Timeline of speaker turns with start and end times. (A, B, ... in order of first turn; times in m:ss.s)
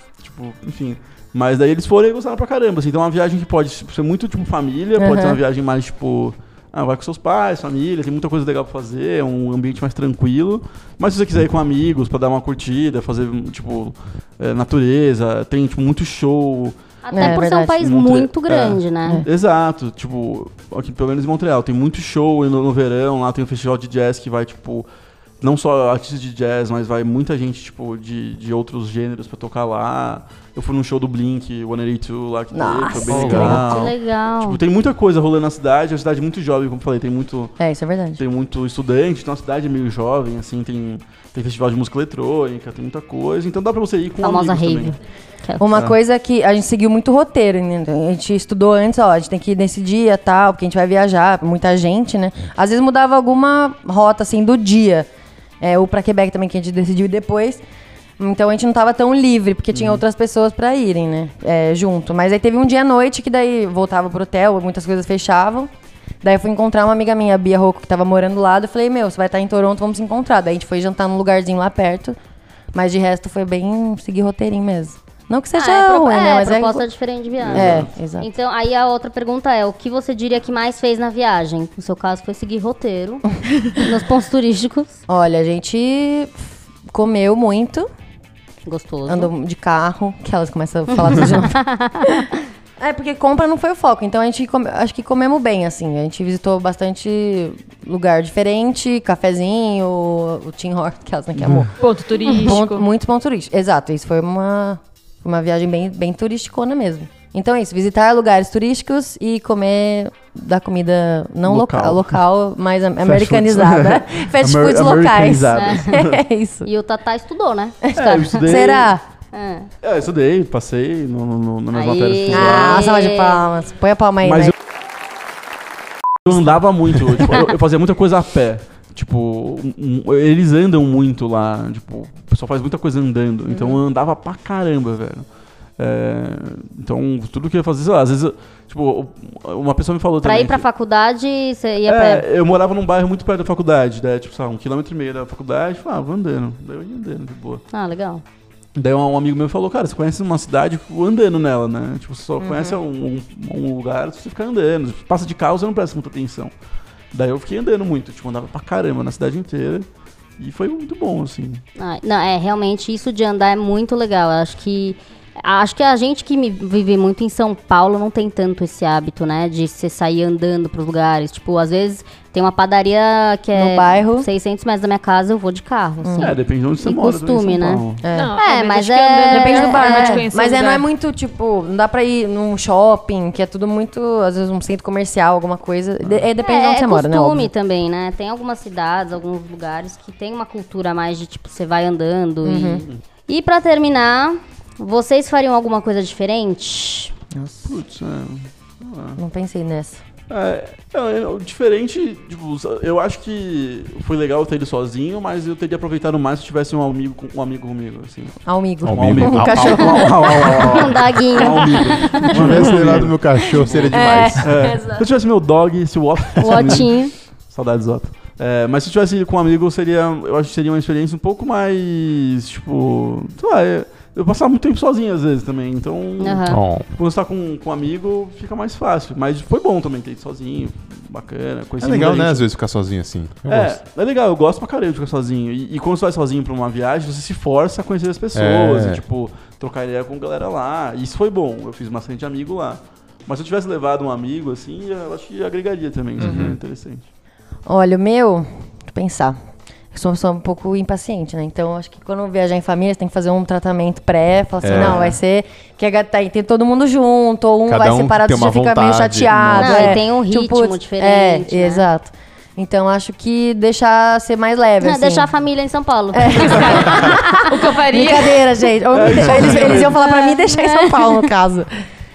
0:00.2-0:24.9 A
0:05.0-0:05.4 B
0:17.0-0:19.2 C
0:17.1-0:17.8 B
0:25.4-0:37.6 A
0:32.5-0:33.9 B
0:33.2-0:34.6 C
0:37.6-0:38.2 B
0:38.2-0:45.0 A
0:44.2-0:45.6 C
0:45.6-0:55.1 B
0:55.6-0:57.6 B
0:58.2-1:05.7 B
0:59.7-1:00.0 A
1:06.2-1:12.2 B
1:12.7-1:16.9 B
1:15.6-1:25.0 C
1:17.4-1:17.9 A
1:17.5-1:18.3 B
1:25.1-1:27.9 B
1:28.6-1:29.3 C
1:29.1-1:31.6 B
1:31.2-1:32.4 C
1:32.8-1:41.7 B
1:41.8-1:42.8 D
1:42.4-1:56.7 B
1:51.4-1:52.2 A
1:53.0-1:56.2 A
1:55.5-1:56.0 C
1:56.6-1:59.7 C
1:57.9-1:58.9 A
1:58.4-1:59.0 B
1:59.8-2:02.9 A
2:01.7-2:03.5 C
2:02.3-2:04.5 B
2:04.2-2:04.5 A
2:06.2-2:15.3 A
2:15.8-2:20.6 A
2:20.2-2:22.2 C
2:21.8-2:27.6 A
2:27.7-2:28.2 C
2:28.8-2:36.5 A
2:32.4-2:32.7 B
2:37.1-2:39.9 A
2:40.4-2:41.6 A
2:41.8-2:57.8 C
2:53.5-2:54.3 B
2:56.0-2:56.3 B
2:56.2-2:58.0 A
2:58.0-2:58.4 B
2:58.1-3:00.9 D
2:58.4-3:00.2 C
2:59.3-3:07.5 B
3:06.4-3:17.1 C
3:12.4-3:12.9 B
3:17.4-3:17.8 B
3:17.6-3:19.2 A
3:19.2-3:20.0 B
3:20.3-3:28.4 A
3:28.4-3:30.3 B
3:28.8-3:30.7 E
3:28.9-3:52.4 A
3:30.4-3:32.3 C
3:32.2-3:34.5 E
3:33.6-3:35.0 B
3:36.4-3:37.1 C
3:46.2-3:46.6 C
3:46.5-3:46.9 E
3:51.8-3:53.8 E
3:53.5-4:07.0 A
3:58.3-3:59.0 E
4:06.2-4:06.6 E
4:06.2-4:06.5 B
4:07.7-4:09.4 B
4:09.9-4:25.3 B
4:14.6-4:15.2 E
4:14.7-4:15.2 A
4:17.6-4:20.0 E
4:19.6-4:21.9 C
4:24.8-4:26.8 C
4:26.1-4:31.7 B
4:26.3-4:28.7 D
4:28.9-4:30.0 A
4:30.0-4:31.2 C